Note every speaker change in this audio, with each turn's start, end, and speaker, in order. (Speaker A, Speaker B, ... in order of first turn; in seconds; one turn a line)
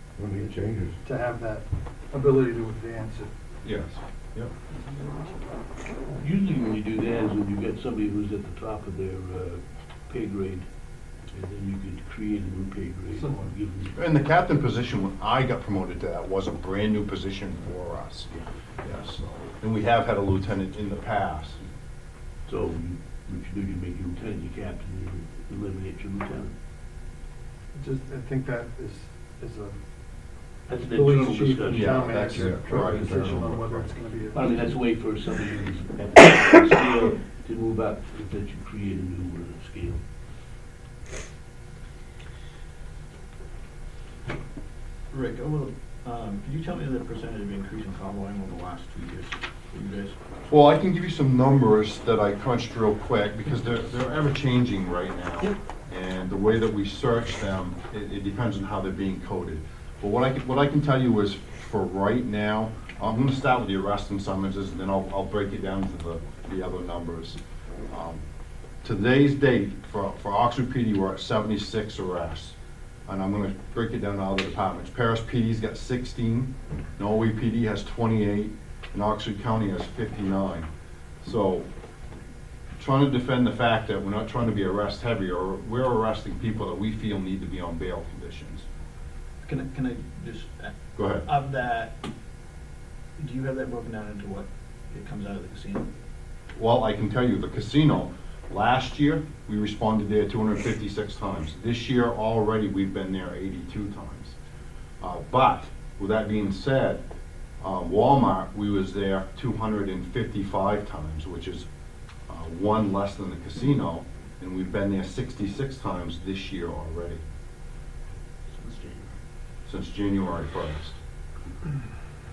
Speaker A: 0.1-1.0
Speaker B: 0.4-3.3
Speaker C: 3.6-4.5
Speaker D: 6.2-10.7
Speaker D: 11.3-14.0
Speaker B: 13.1-13.5
Speaker C: 13.9-18.3
Speaker C: 18.8-21.6
Speaker D: 22.5-26.5
Speaker B: 27.7-29.8
Speaker D: 30.7-32.3
Speaker B: 30.7-34.7
Speaker C: 31.7-33.2
Speaker A: 32.3-33.9
Speaker D: 34.3-40.0
Speaker E: 45.1-50.2
Speaker C: 50.5-68.2
Speaker C: 68.8-72.5
Speaker C: 73.1-80.7
Speaker C: 81.2-81.7
Speaker C: 82.8-88.7
Speaker E: 89.4-90.7
Speaker C: 90.9-91.2
Speaker E: 91.2-92.0
Speaker E: 93.2-95.9
Speaker C: 96.5-104.3
Speaker C: 105.0-107.0
Speaker C: 107.6-111.7
Speaker C: 112.3-117.2
Speaker D: 118.6-119.0
Speaker C: 119.7-121.0